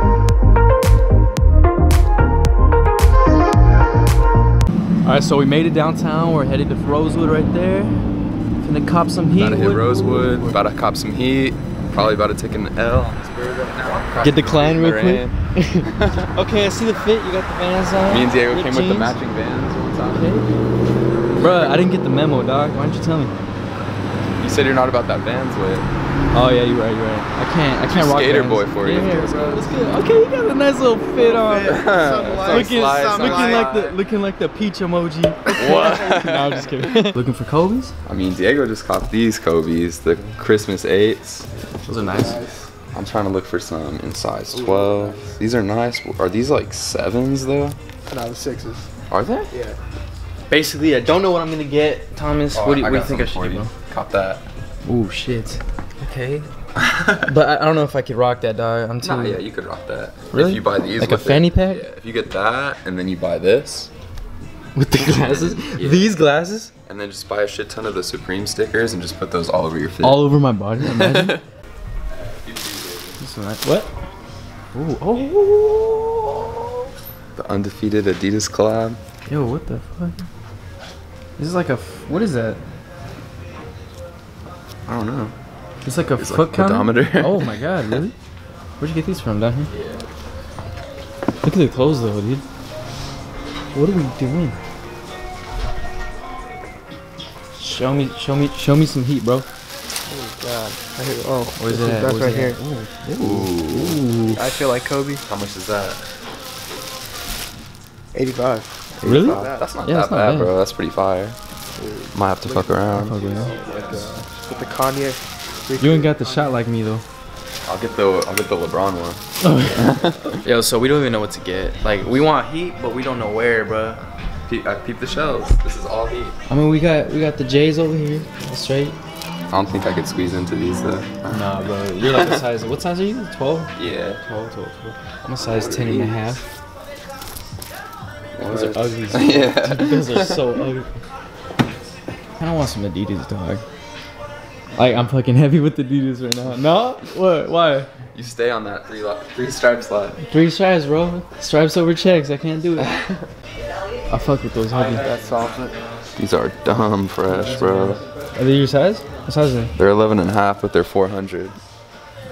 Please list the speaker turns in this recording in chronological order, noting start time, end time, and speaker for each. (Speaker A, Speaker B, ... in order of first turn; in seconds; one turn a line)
Speaker A: 5.0-8.1
Speaker A: 8.6-10.4
Speaker B: 9.4-16.3
Speaker A: 14.2-19.2
Speaker B: 18.1-20.4
Speaker A: 20.1-20.5
Speaker A: 21.3-23.3
Speaker B: 24.4-25.9
Speaker A: 26.3-31.9
Speaker B: 27.9-29.2
Speaker C: 28.9-29.9
Speaker C: 31.1-33.7
Speaker B: 31.6-34.0
Speaker A: 32.4-37.9
Speaker C: 35.5-36.6
Speaker B: 35.5-37.1
Speaker B: 38.0-41.5
Speaker A: 41.9-42.5
Speaker C: 42.1-42.7
Speaker B: 42.9-47.8
Speaker C: 44.5-45.2
Speaker C: 48.1-48.9
Speaker B: 49.1-49.5
Speaker C: 49.5-49.8
Speaker A: 50.5-53.7
Speaker B: 52.5-54.4
Speaker A: 54.9-56.5
Speaker B: 56.8-57.3
Speaker A: 57.2-59.4
Speaker B: 59.0-63.9
Speaker A: 60.3-61.8
Speaker A: 64.7-66.7
Speaker B: 65.1-66.1
Speaker B: 66.8-70.2
Speaker A: 70.0-71.4
Speaker B: 70.8-71.4
Speaker B: 72.4-73.2
Speaker A: 73.2-73.9
Speaker A: 74.7-76.7
Speaker B: 77.3-79.0
Speaker A: 79.3-80.3
Speaker A: 81.4-82.6
Speaker B: 84.9-85.3
Speaker A: 85.8-88.1
Speaker B: 86.2-87.9
Speaker A: 88.8-89.7
Speaker B: 89.7-90.0
Speaker A: 91.4-92.4
Speaker A: 93.7-94.6
Speaker A: 97.5-99.5
Speaker C: 100.1-102.6
Speaker A: 101.6-104.4
Speaker B: 103.2-104.0
Speaker C: 104.3-105.2
Speaker B: 105.3-106.0
Speaker C: 108.1-109.7
Speaker B: 109.0-111.3
Speaker A: 109.0-110.5
Speaker C: 111.8-116.5
Speaker B: 112.1-114.1
Speaker A: 112.9-113.5
Speaker A: 115.8-117.0
Speaker B: 117.6-120.4
Speaker A: 119.4-124.0
Speaker B: 124.5-126.3
Speaker A: 126.5-128.9
Speaker B: 129.5-132.4
Speaker A: 131.3-136.4
Speaker B: 133.8-134.2
Speaker B: 135.5-136.4
Speaker B: 138.3-140.6
Speaker A: 138.5-140.9
Speaker A: 142.4-143.6
Speaker A: 144.7-147.9
Speaker B: 148.1-150.2
Speaker A: 150.3-152.9
Speaker B: 152.8-153.3
Speaker A: 154.1-155.2
Speaker B: 154.9-158.0
Speaker A: 157.3-159.7
Speaker B: 159.8-161.6